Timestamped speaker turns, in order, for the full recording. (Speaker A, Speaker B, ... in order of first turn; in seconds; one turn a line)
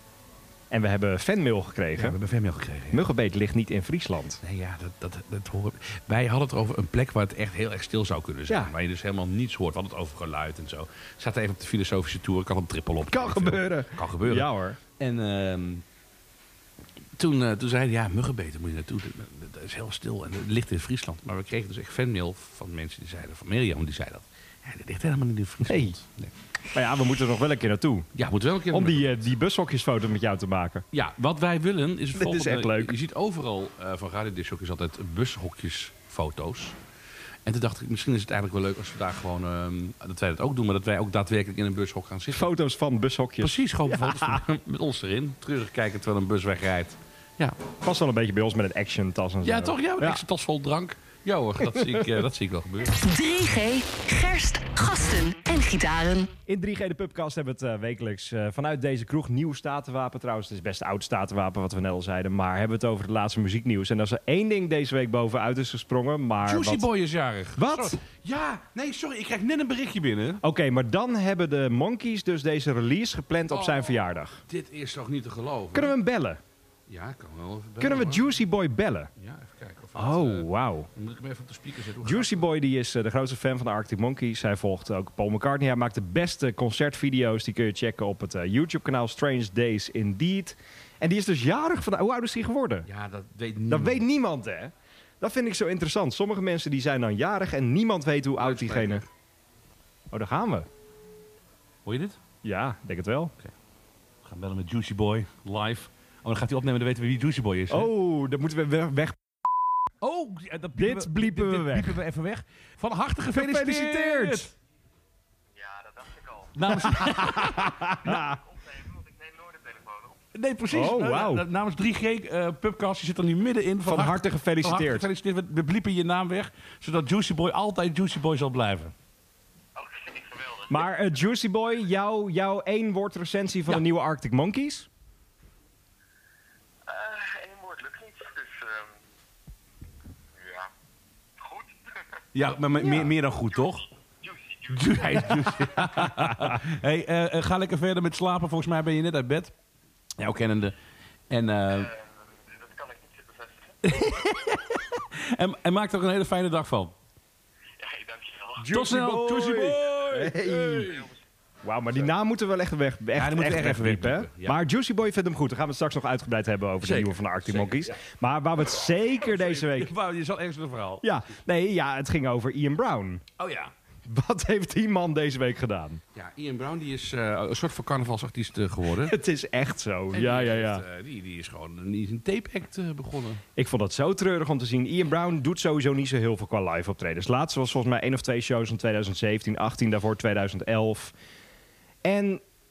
Speaker A: 0.7-2.2
Speaker B: 1.9-3.0
Speaker A: 2.9-4.4
Speaker B: 4.4-15.8
Speaker A: 13.1-14.8
Speaker B: 17.2-26.3
Speaker A: 25.6-25.9
Speaker A: 26.7-28.1
Speaker B: 28.1-29.3
Speaker A: 28.7-30.8
Speaker B: 30.9-36.8
Speaker A: 32.1-32.9
Speaker B: 37.4-42.5
Speaker A: 42.3-44.4
Speaker B: 43.4-47.6
Speaker A: 47.8-50.2
Speaker B: 49.4-53.0
Speaker A: 51.6-52.1
Speaker C: 53.0-56.3
Speaker A: 56.5-66.9
Speaker B: 66.4-70.4
Speaker A: 67.5-68.0
Speaker A: 70.4-74.4
Speaker B: 73.5-75.9
Speaker A: 75.7-76.4
Speaker B: 76.9-78.3
Speaker A: 77.8-79.1
Speaker B: 79.2-82.5
Speaker A: 80.0-80.9
Speaker A: 82.0-92.9
Speaker B: 92.9-94.0
Speaker A: 93.7-99.0
Speaker B: 98.4-99.1
Speaker A: 100.1-100.7
Speaker B: 101.8-102.2
Speaker A: 102.4-103.3
Speaker B: 104.2-107.9
Speaker A: 107.7-109.6
Speaker B: 110.0-114.5
Speaker A: 110.8-112.0
Speaker A: 113.3-114.5
Speaker D: 115.5-116.5
Speaker B: 116.5-118.2
Speaker A: 116.7-118.4
Speaker D: 118.4-120.2
Speaker B: 120.3-128.9
Speaker A: 120.7-121.4
Speaker A: 123.8-125.0
Speaker D: 129.8-130.7
Speaker A: 130.7-134.9
Speaker D: 136.8-138.9
Speaker D: 140.3-140.7
Speaker D: 141.4-141.8
Speaker B: 142.3-143.8
Speaker A: 142.8-143.1
Speaker D: 144.2-145.1
Speaker B: 144.7-149.5
Speaker A: 146.0-146.6
Speaker B: 150.2-150.7
Speaker B: 151.3-151.9
Speaker D: 151.9-153.8
Speaker B: 153.8-156.9
Speaker D: 157.8-158.6
Speaker A: 158.6-161.1
Speaker B: 158.6-161.1
Speaker A: 161.6-169.9
Speaker B: 163.1-164.6
Speaker B: 166.8-168.0
Speaker B: 169.2-171.1
Speaker A: 171.0-173.2
Speaker B: 173.4-173.7
Speaker A: 174.1-176.0
Speaker B: 176.1-179.2
Speaker A: 178.9-180.8
Speaker B: 180.1-183.4
Speaker A: 183.6-191.1
Speaker A: 192.0-192.4